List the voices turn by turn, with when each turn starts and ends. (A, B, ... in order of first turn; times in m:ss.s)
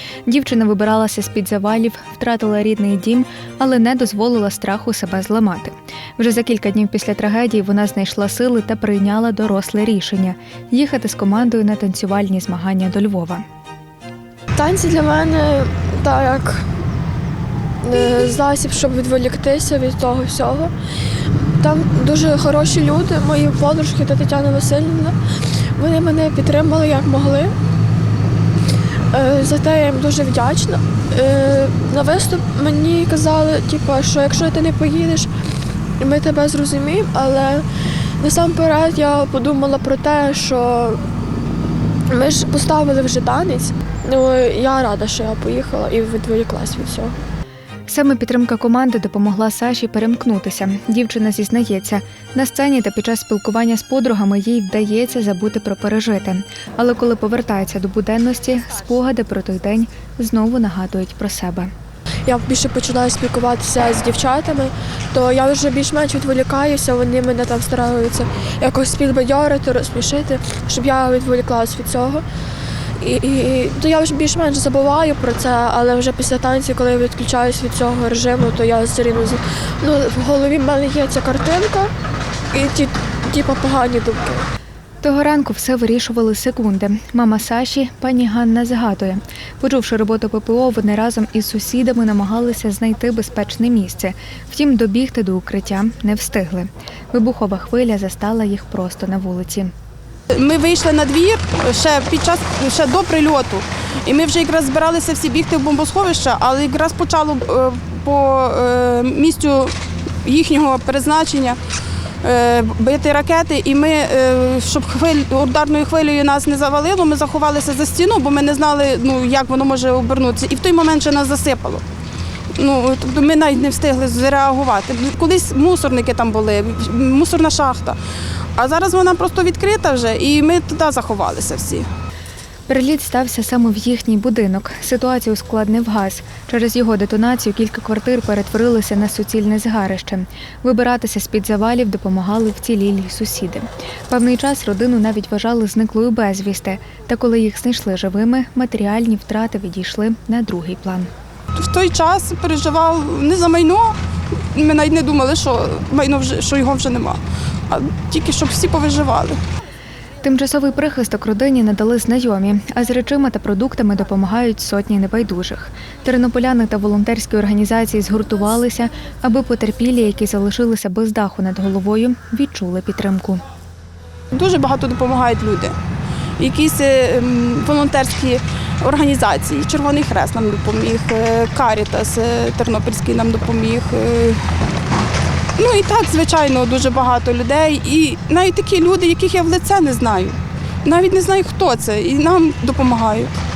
0:00.2-0:13.4 A
0:14.6-0:16.7 B
0:17.8-0:20.7 B
0:21.3-0:27.5 B
0:29.1-0:35.3 B
0:36.0-0:37.7 B
0:38.2-0:41.0 B
0:42.1-0:47.2 B
0:47.9-1:01.7 A
1:02.2-1:12.2 B
1:13.0-1:21.9 B
1:22.5-1:24.5 B
1:25.0-1:39.7 A
1:40.3-1:51.6 C
1:52.2-2:01.8 C
2:02.6-2:08.0 C
2:08.6-2:11.9 C
2:12.7-2:31.1 A
2:31.5-2:34.0 C
2:34.5-2:39.4 C
2:40.2-2:53.4 A
2:54.3-2:55.7 C
2:56.4-3:04.4 C
3:05.6-3:13.3 C